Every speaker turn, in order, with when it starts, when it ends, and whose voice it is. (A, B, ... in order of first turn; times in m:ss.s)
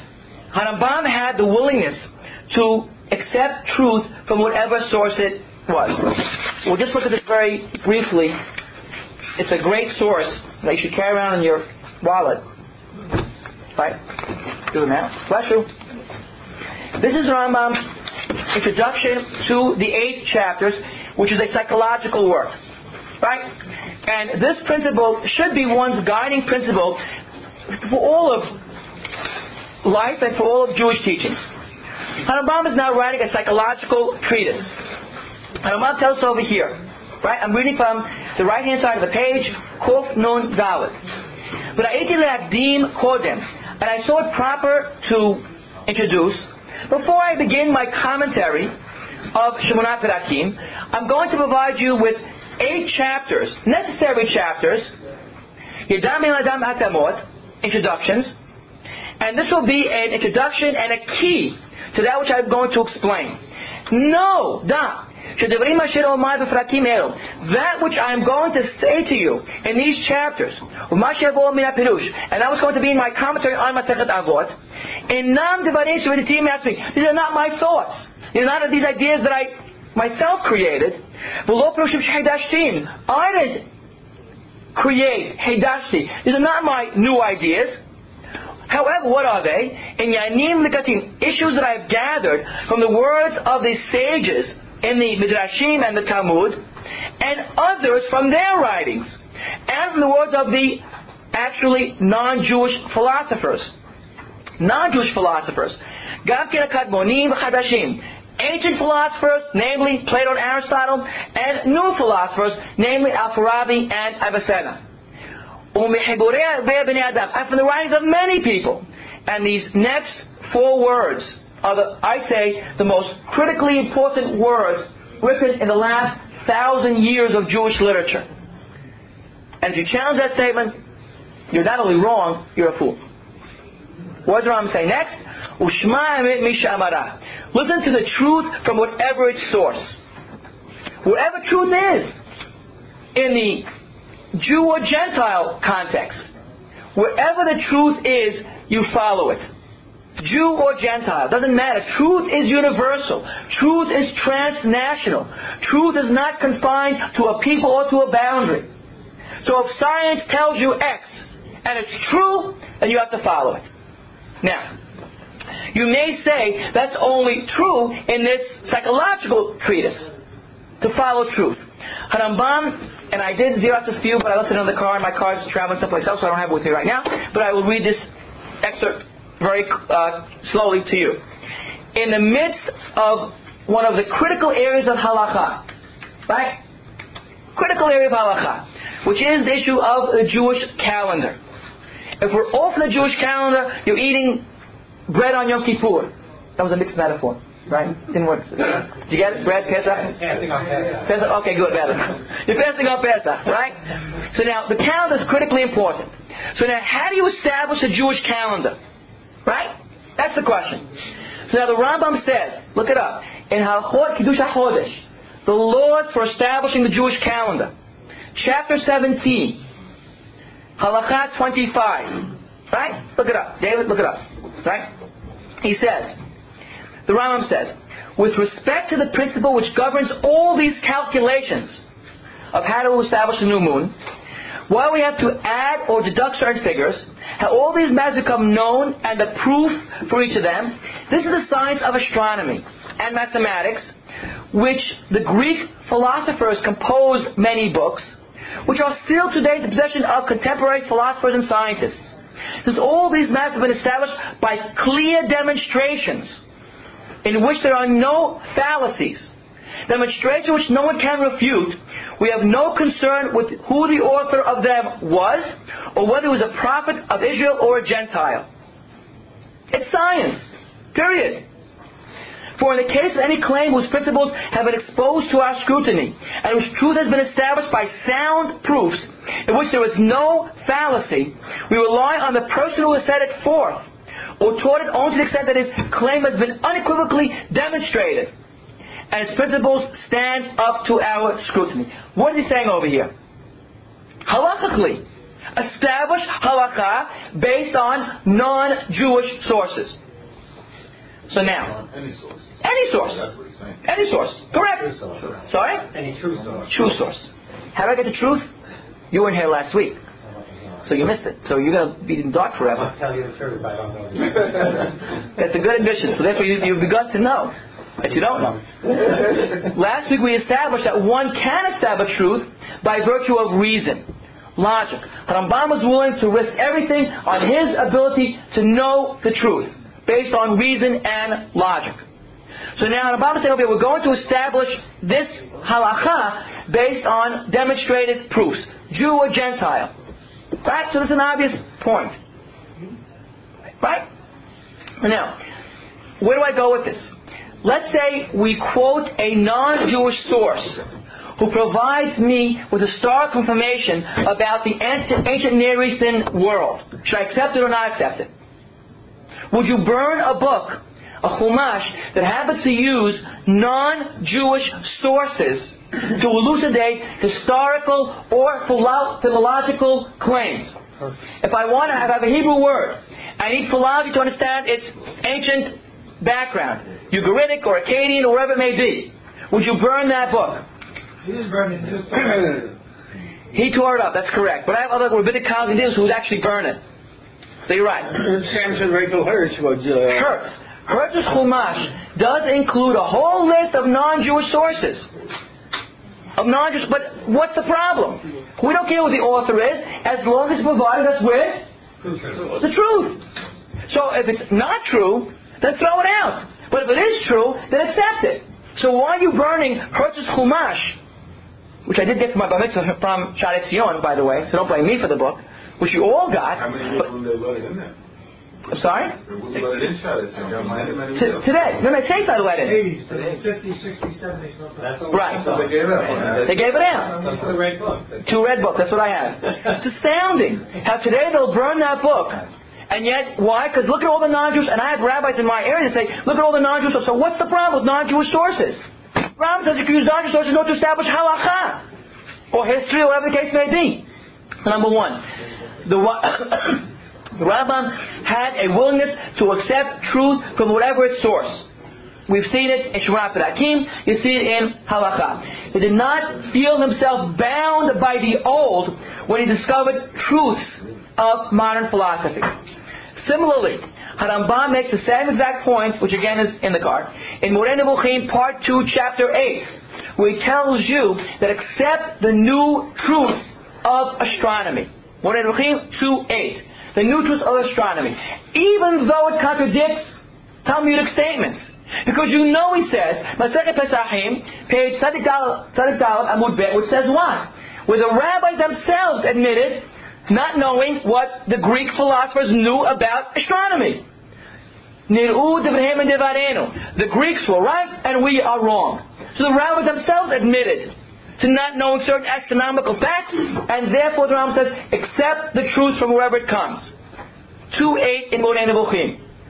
0:00.5-0:08.4 A
0:09.4-0:12.4 A
0:14.6-0:15.7 A
0:17.0-0:22.6 A
0:23.2-0:23.5 A
0:24.0-0:27.0 A
0:27.7-0:28.6 A
0:29.8-0:31.4 A
0:32.2-0:34.8 A
0:35.6-0:41.0 A
0:41.7-0:48.7 A
0:49.3-0:54.9 A
0:55.9-0:58.3 A
0:59.2-1:14.5 A
1:15.1-1:23.6 A
1:24.7-1:27.8 A
1:28.7-1:36.6 A
1:37.2-1:43.7 A
1:44.6-1:54.8 A
1:55.7-2:08.2 A
2:09.6-2:10.8 A
2:11.5-2:13.0 A
2:14.2-2:20.0 A
2:21.0-2:22.2 A
2:23.1-2:23.7 A
2:24.3-2:26.2 A
2:26.9-2:29.5 A
2:30.2-2:38.7 A
2:39.4-2:43.7 A
2:44.4-2:44.7 A
2:45.7-2:50.1 A
2:50.8-3:01.2 A
3:01.9-3:05.7 A
3:06.3-3:06.6 A
3:07.6-3:11.4 A
3:12.2-3:14.4 A
3:15.1-3:20.2 A
3:20.0-3:21.1 B
3:21.0-3:23.8 A
3:24.3-3:28.8 A
3:29.4-3:30.8 A
3:31.5-3:37.7 A
3:38.3-3:39.6 A
3:40.8-3:44.9 A
3:45.6-3:46.2 A
3:47.0-3:51.8 A
3:52.5-3:53.9 A
3:54.7-4:03.9 A
4:04.5-4:12.1 A
4:12.6-4:16.4 A
4:17.2-4:19.3 A
4:19.9-4:28.4 A
4:29.7-4:31.4 A
4:32.6-4:48.3 A
4:49.1-4:53.1 A
4:54.2-5:00.0 A
5:01.3-5:01.7 A
5:01.7-5:03.8 C
5:02.6-5:03.2 A
5:03.8-5:04.9 A
5:04.7-5:06.7 B
5:05.4-5:05.8 A
5:06.7-5:08.5 A
5:09.1-5:10.0 A
5:10.3-5:10.8 B
5:10.8-5:12.9 A
5:12.7-5:15.0 B
5:15.4-5:32.0 A
5:32.8-5:39.9 A
5:40.6-5:42.2 A
5:45.0-5:45.4 A
5:46.2-5:47.1 A
5:47.6-5:50.8 A
5:51.4-5:58.3 A
5:59.5-6:10.8 A
6:11.4-6:20.6 A
6:23.5-6:26.8 A
6:27.6-6:28.1 A
6:28.1-6:30.3 D
6:30.1-6:35.1 A
6:36.4-6:41.6 A
6:42.6-6:43.2 A
6:43.9-6:51.0 A
6:51.8-6:57.1 A
6:56.6-6:57.9 C
6:58.7-6:59.2 A
6:59.2-7:01.8 C
7:01.1-7:02.8 A
7:02.8-7:04.0 E
7:04.8-7:08.1 B
7:05.1-7:05.5 A
7:05.2-7:07.5 E
7:05.6-7:06.6 C
7:06.4-7:07.2 A
7:08.2-7:18.8 A
7:19.4-7:21.8 A
7:22.5-7:24.0 A
7:24.6-7:25.2 A
7:25.8-7:31.7 A
7:32.3-7:42.5 A
7:43.2-8:14.0 A
8:15.1-8:26.9 A
8:27.7-8:29.2 A